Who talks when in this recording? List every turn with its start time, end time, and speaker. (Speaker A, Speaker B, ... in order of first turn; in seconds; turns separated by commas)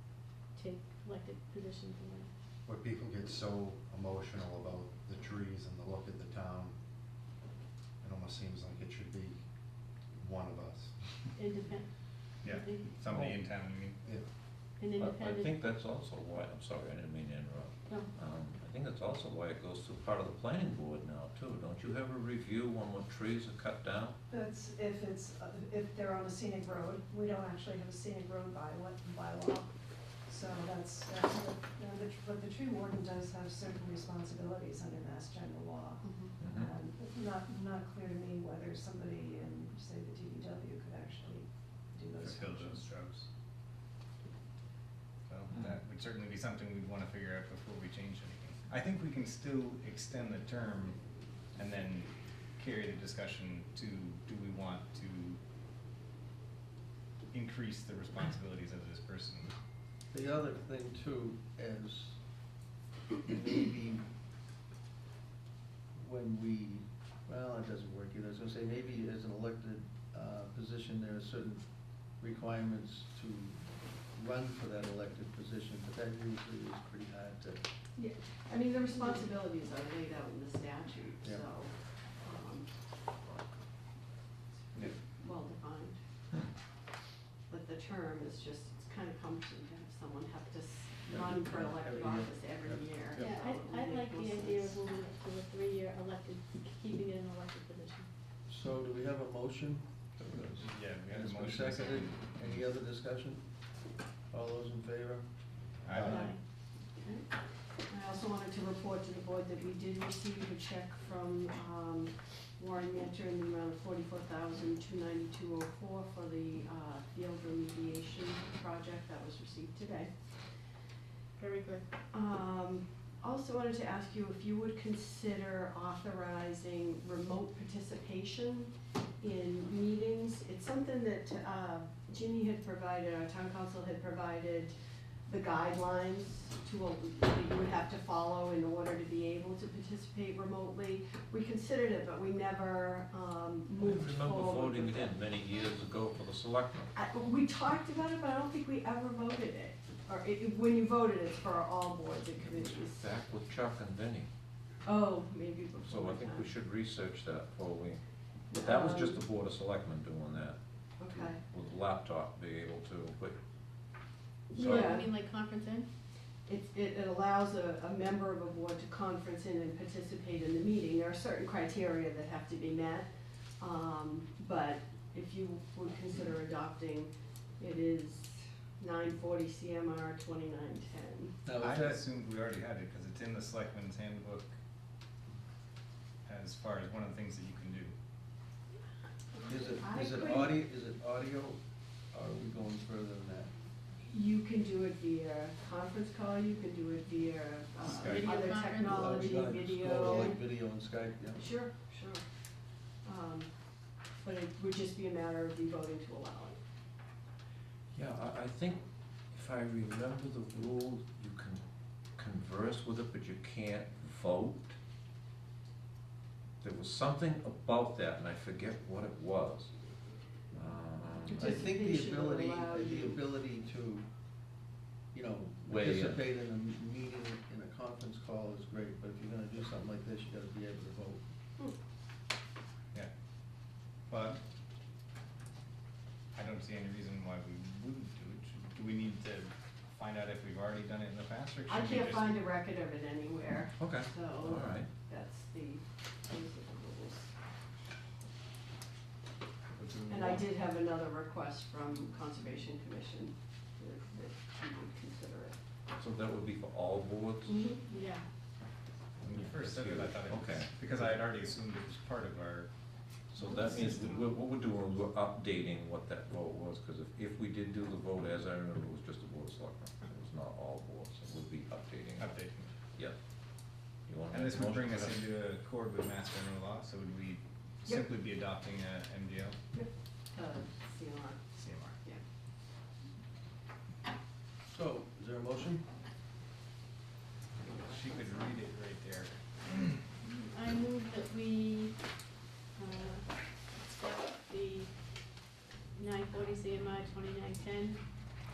Speaker A: 0.5-2.3, Speaker B: 2.7-6.8, Speaker B: 8.0-9.4, Speaker B: 10.2-10.9, Speaker A: 11.4-11.9, Speaker C: 12.4-14.0, Speaker A: 12.4-12.9, Speaker A: 14.8-15.6, Speaker D: 15.0-24.2, Speaker E: 24.3-29.7, Speaker E: 30.2-42.8, Speaker F: 36.0-36.3, Speaker D: 36.4-36.8, Speaker C: 42.2-43.3, Speaker C: 45.3-51.0, Speaker C: 51.5-55.4, Speaker C: 57.3-59.5, Speaker G: 60.1-62.2, Speaker G: 63.3-64.0, Speaker G: 66.0-71.6, Speaker G: 72.2-77.6, Speaker F: 78.0-82.7, Speaker G: 81.2-81.5, Speaker F: 84.8-86.0, Speaker F: 87.5-94.8, Speaker G: 91.1-92.9, Speaker A: 93.2-98.1, Speaker G: 98.5-103.5, Speaker C: 100.7-102.6, Speaker G: 104.3-105.3, Speaker C: 105.9-106.2, Speaker G: 105.9-106.2, Speaker F: 106.0-106.4, Speaker A: 106.0-106.4, Speaker F: 107.0-107.3, Speaker F: 107.9-120.1, Speaker A: 121.4-121.8, Speaker F: 122.1-134.7, Speaker F: 135.3-145.1, Speaker D: 143.8-146.9, Speaker F: 146.9-153.1, Speaker D: 152.4-154.3, Speaker F: 154.8-156.5, Speaker D: 155.8-158.0, Speaker F: 158.5-159.2, Speaker D: 158.5-163.4, Speaker F: 161.0-161.4, Speaker D: 164.5-164.9, Speaker A: 164.5-165.9, Speaker F: 164.6-165.1, Speaker F: 166.5-181.4, Speaker G: 181.4-182.0, Speaker C: 181.6-184.5, Speaker C: 186.3-187.9, Speaker F: 189.3-190.6, Speaker G: 189.4-191.6, Speaker G: 192.1-193.5, Speaker F: 194.1-200.4, Speaker C: 197.8-198.3, Speaker A: 198.0-199.5, Speaker G: 198.8-201.6, Speaker F: 201.4-202.2, Speaker F: 203.0-203.5, Speaker F: 204.2-206.6, Speaker D: 207.9-211.6, Speaker D: 212.2-214.8, Speaker D: 216.6-219.7, Speaker D: 220.5-221.6, Speaker F: 221.3-223.2, Speaker G: 221.3-224.1, Speaker G: 225.1-231.3, Speaker D: 225.7-226.2, Speaker C: 234.1-234.4, Speaker C: 236.3-242.4, Speaker F: 241.7-247.3, Speaker D: 243.8-244.9, Speaker C: 249.7-250.5, Speaker F: 250.1-255.6, Speaker D: 256.0-257.6, Speaker F: 257.4-257.9, Speaker A: 257.9-258.3, Speaker D: 259.2-260.7, Speaker C: 259.2-262.7, Speaker D: 263.3-272.3, Speaker F: 263.4-264.3, Speaker C: 272.2-272.7, Speaker D: 274.1-275.3, Speaker C: 274.3-279.6, Speaker F: 279.7-281.4, Speaker C: 281.5-282.0, Speaker G: 284.7-285.8, Speaker C: 287.6-290.0, Speaker F: 287.7-288.6, Speaker A: 290.2-291.9, Speaker A: 292.8-293.3, Speaker A: 293.9-294.9, Speaker A: 296.0-298.0